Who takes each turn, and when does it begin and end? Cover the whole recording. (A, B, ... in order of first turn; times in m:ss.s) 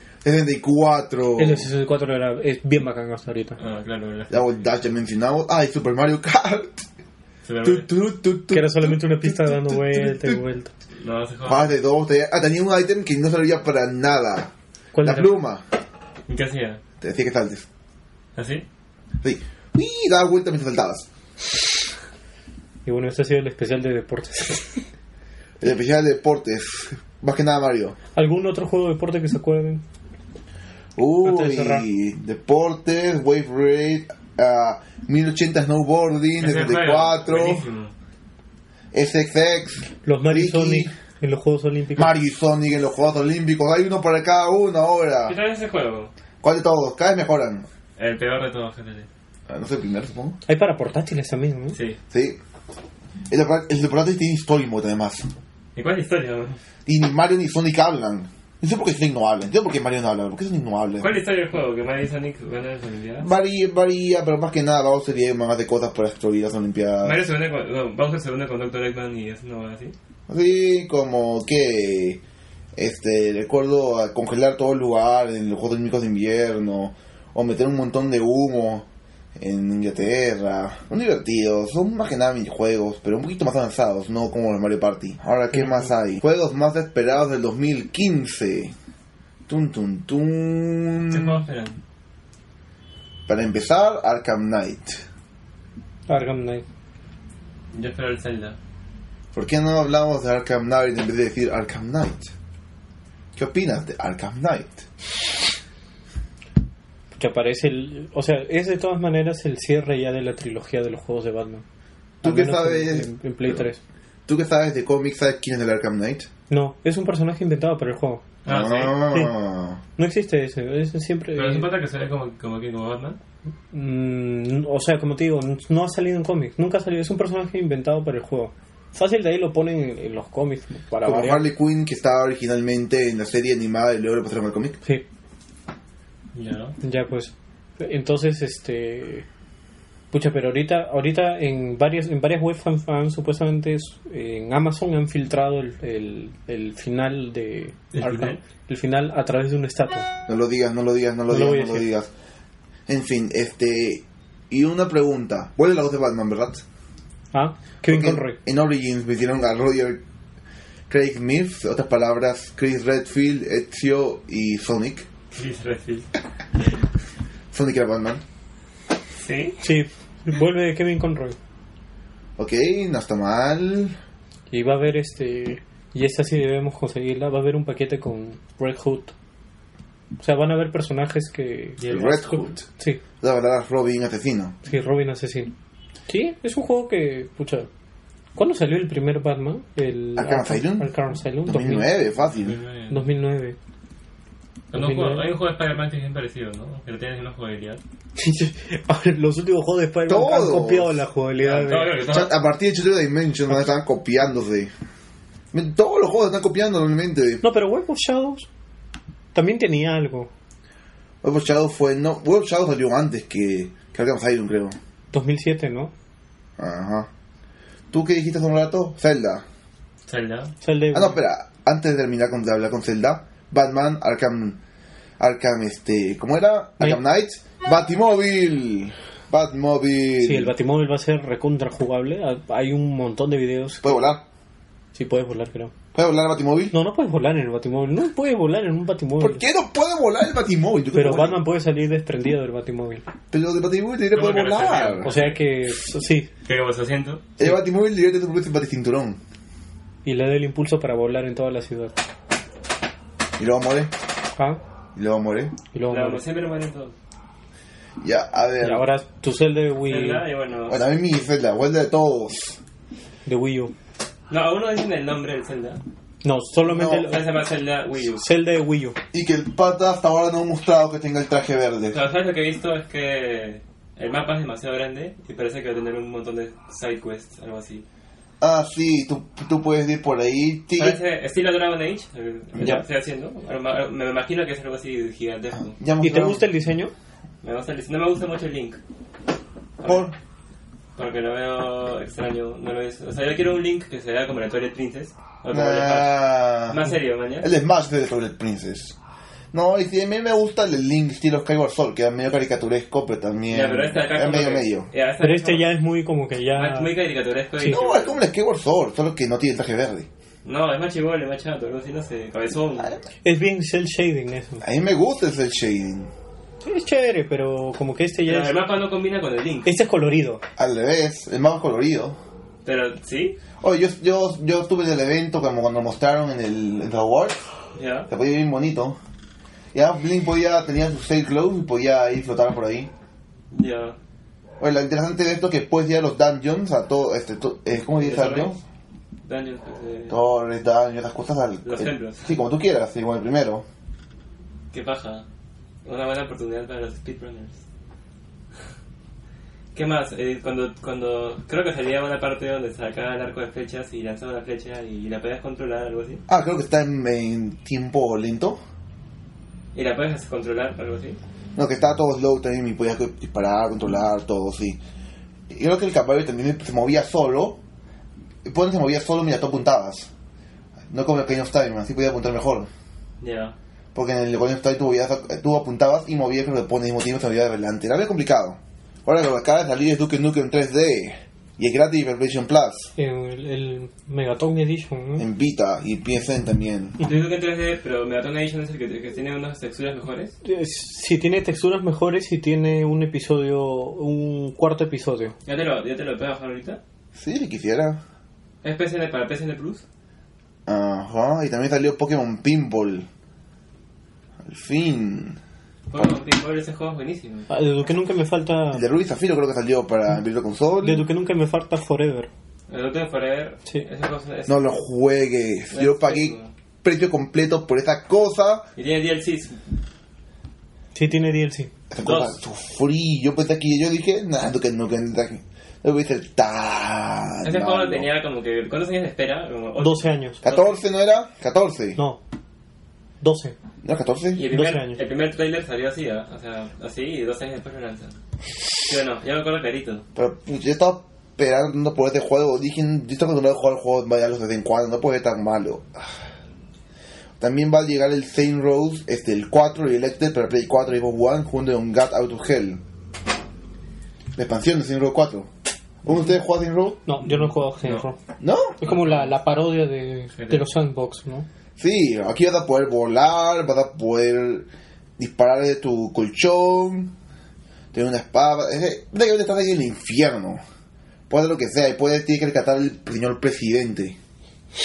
0:00.2-0:01.7 A
0:01.4-0:03.6 B
0:03.6-0:04.6 C
0:04.3-0:06.8 A
0:07.4-0:07.9 C
0:07.6-0:10.4 A
0:08.5-0:10.7 B
0:11.0-0:11.7 C
0:11.4-0:15.6 A
0:14.9-0:15.4 B
0:16.3-0:16.8 C
0:17.0-0:17.6 A
0:18.4-0:18.6 C
0:19.2-0:21.1 A
0:22.8-0:24.8 B
0:25.6-0:28.0 A
0:28.1-0:29.8 B
0:31.0-0:37.6 A
0:31.2-0:31.9 B
0:36.4-0:37.9 C
0:38.9-0:40.9 A
0:40.0-0:42.1 B
0:42.0-0:45.4 A
0:45.2-0:46.1 C
0:46.4-0:47.6 A
0:48.0-0:49.1 C
0:49.5-0:50.4 A
0:50.4-0:51.8 B
0:51.7-0:52.0 C
0:52.1-0:52.4 A
0:53.3-0:55.3 A
0:55.7-0:56.6 C
0:56.8-1:01.1 A
1:01.0-1:03.3 C
1:03.2-1:07.2 A
1:07.0-1:09.9 C
1:10.3-1:12.2 A
1:12.8-1:18.8 A
1:19.4-1:28.7 A
1:29.5-1:31.4 A
1:31.1-1:31.8 C
1:33.3-1:35.0 A
1:36.1-1:36.6 B
1:37.7-1:38.6 C
1:39.3-1:42.3 A
1:43.4-1:44.9 A
1:47.2-1:51.6 B
1:52.2-1:53.8 B
1:52.2-1:53.6 A
1:54.3-1:56.3 A
1:56.5-1:58.2 B
1:58.4-1:59.0 C
1:58.4-1:59.8 A
2:00.0-2:01.7 B
2:01.3-2:03.2 C
2:03.7-2:11.5 B
2:11.0-2:14.8 A
2:16.3-2:16.8 C
2:16.8-2:19.2 B
2:20.1-2:30.1 B
2:27.9-2:28.4 C
2:30.3-2:32.1 A
2:31.3-2:31.9 B
2:32.9-2:36.6 A
2:37.3-2:38.4 B
2:37.8-2:40.0 A
2:40.9-2:45.1 A
2:45.3-2:46.1 C
2:47.5-2:48.2 A
2:49.2-2:49.6 C
2:49.6-2:51.4 B
2:52.4-2:53.9 A
2:54.5-2:59.1 B
3:00.2-3:03.0 B
3:01.8-3:02.3 C
3:01.9-3:02.6 A
3:03.2-3:04.5 A
3:04.6-3:05.5 B
3:06.1-3:07.7 B
3:08.4-3:11.9 B
3:10.1-3:12.6 A
3:12.4-3:13.0 C
3:12.9-3:13.6 B
3:14.7-3:17.8 C
3:14.7-3:15.3 B
3:18.2-3:22.0 B
3:20.1-3:21.0 A
3:21.4-3:22.4 C
3:22.1-3:24.7 A
3:25.5-3:27.4 A
3:27.4-3:28.5 B
3:29.3-3:30.3 B
3:31.2-3:34.8 A
3:35.1-3:35.9 B
3:36.6-3:37.1 A
3:37.9-3:39.4 A
3:40.1-3:40.5 C
3:40.6-3:41.2 B
3:40.9-3:44.6 A
3:45.2-3:50.5 A
3:50.2-3:54.0 B
3:53.8-3:54.2 A
3:54.9-3:55.7 B
3:55.9-3:56.7 A
3:56.7-3:59.4 B
3:59.2-4:01.4 A
4:00.9-4:03.0 B
4:03.3-4:05.1 A
4:04.1-4:05.4 C
4:05.0-4:06.3 B
4:06.4-4:07.3 C
4:07.4-4:09.2 A
4:10.0-4:11.9 B
4:13.4-4:13.9 A
4:14.9-4:15.5 A
4:15.7-4:16.2 B
4:15.9-4:16.9 C
4:18.0-4:18.8 A
4:18.6-4:20.2 B
4:19.9-4:20.8 C
4:20.7-4:22.6 A
4:23.2-4:23.7 B
4:24.3-4:25.8 C
4:26.2-4:27.3 B
4:26.7-4:27.2 A
4:26.9-4:28.2 C
4:28.1-4:29.0 B
4:29.1-4:32.0 A
4:31.9-4:37.8 C
4:38.4-4:41.0 A
4:40.8-4:45.7 C
4:42.6-4:42.8 A
4:45.6-4:46.5 A
4:46.0-4:46.9 B
4:47.4-4:48.8 C
4:49.8-4:50.1 C
4:49.8-4:50.1 A
4:51.0-4:57.5 C
4:55.5-4:56.9 A
4:57.4-4:59.0 A
4:59.5-5:04.9 A
5:03.5-5:05.7 C
5:05.2-5:06.9 B
5:06.5-5:08.2 C
5:07.6-5:10.1 A
5:10.4-5:13.0 C
5:13.2-5:14.6 B
5:14.6-5:16.1 A
5:16.6-5:18.6 B
5:18.2-5:19.7 C
5:19.6-5:20.4 B
5:20.6-5:22.2 A
5:22.6-5:23.4 C
5:23.6-5:27.4 A
5:27.7-5:28.1 C
5:28.1-5:29.0 A
5:29.7-5:32.9 A
5:33.5-5:34.0 C
5:34.6-5:38.6 A
5:37.9-5:38.6 C
5:39.2-5:40.2 C
5:40.1-5:43.6 A
5:41.6-5:42.3 C
5:44.7-5:45.2 C
5:45.8-5:47.6 C
5:49.7-5:56.2 C
5:56.3-5:58.6 A
5:59.7-6:01.2 C
6:01.6-6:04.8 A
6:05.5-6:07.6 A
6:08.4-6:10.1 A
6:10.9-6:12.7 A
6:13.2-6:13.5 C
6:13.9-6:22.9 A
6:23.0-6:25.3 B
6:25.2-6:27.0 A
6:27.0-6:30.3 C
6:30.4-6:35.4 B
6:35.4-6:36.8 C
6:37.1-6:38.0 A
6:38.6-6:39.8 C
6:40.7-6:43.1 A
6:44.4-6:45.4 A
6:45.9-6:47.5 C
6:47.5-6:48.8 B
6:48.7-6:51.1 A
6:50.8-6:52.3 B
6:52.7-6:54.8 C
6:54.5-6:58.6 A
6:55.7-6:56.5 C
6:58.8-6:59.7 C
7:00.9-7:01.7 B
7:01.9-7:08.1 A
7:02.0-7:02.3 C
7:07.4-7:10.8 C
7:09.8-7:10.4 B
7:10.4-7:12.0 A
7:12.0-7:12.2 B
7:13.2-7:13.5 B
7:13.8-7:14.4 A
7:14.3-7:18.2 C
7:14.5-7:15.0 B
7:18.8-7:20.0 C
7:20.1-7:26.1 A
7:27.4-7:32.8 A
7:34.3-7:35.5 A
7:36.0-7:37.0 A
7:37.0-7:38.2 B
7:37.3-7:38.0 C
7:38.4-7:38.8 A
7:38.8-7:41.5 B
7:38.8-7:39.3 C
7:40.4-7:40.7 C
7:41.8-7:47.1 A
7:47.9-7:50.6 A
7:51.3-7:54.2 A